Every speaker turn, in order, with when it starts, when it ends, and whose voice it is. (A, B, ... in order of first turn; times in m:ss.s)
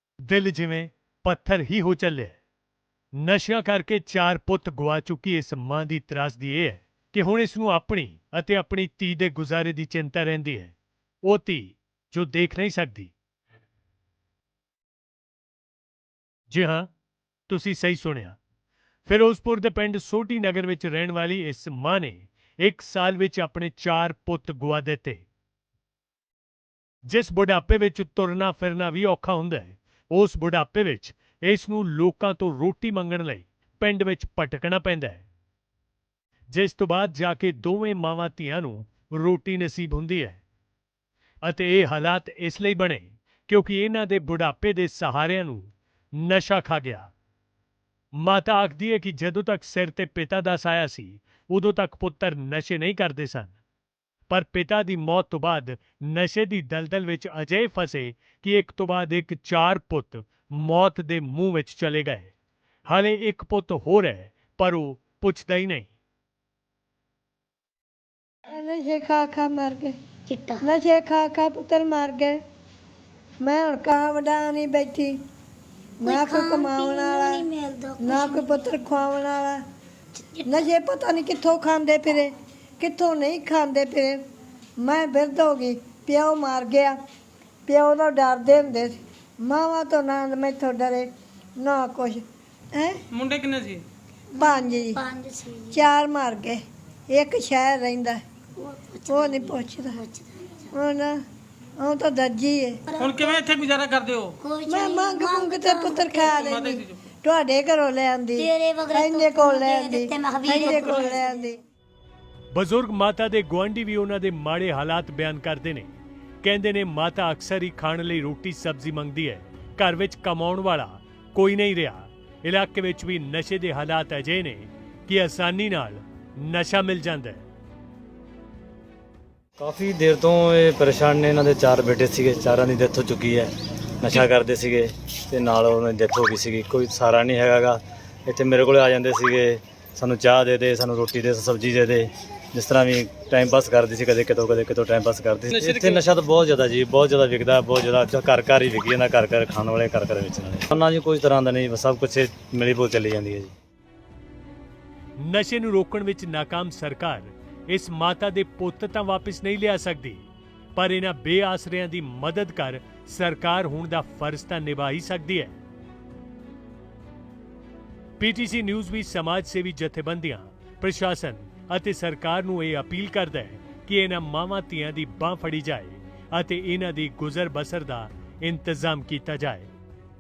0:00.2-0:02.4 A
0:03.2-0:10.7 A
0:11.3-0:13.1 A
0:16.5-0:16.9 A
0:17.5-0:18.4 A
0:19.1-0:25.2 A
0:27.1-0:35.2 A
0:36.5-0:40.4 A
0:41.4-0:47.1 A
0:48.2-0:53.6 A
0:54.3-1:02.3 A
1:02.9-1:05.9 A
1:08.5-1:10.0 B
1:10.3-1:10.7 C
1:10.6-1:12.4 B
1:13.4-1:15.2 B
1:16.0-1:17.5 B
1:16.0-1:18.8 C
1:18.0-1:19.6 B
1:20.2-1:20.6 C
1:20.5-1:24.2 B
1:24.8-1:27.0 B
1:27.7-1:32.2 B
1:33.1-1:33.8 D
1:34.3-1:35.8 C
1:34.4-1:35.0 B
1:35.7-1:38.2 B
1:38.6-1:40.7 C
1:39.1-1:40.0 B
1:40.7-1:41.2 B
1:41.8-1:42.8 B
1:42.9-1:43.4 C
1:43.0-1:44.4 D
1:44.4-1:46.7 C
1:44.7-1:51.6 B
1:46.4-1:46.9 D
1:48.4-1:51.5 C
1:52.5-1:55.9 A
1:56.4-2:07.5 A
2:09.6-2:33.5 E
2:35.2-2:45.6 A
2:48.2-2:59.7 A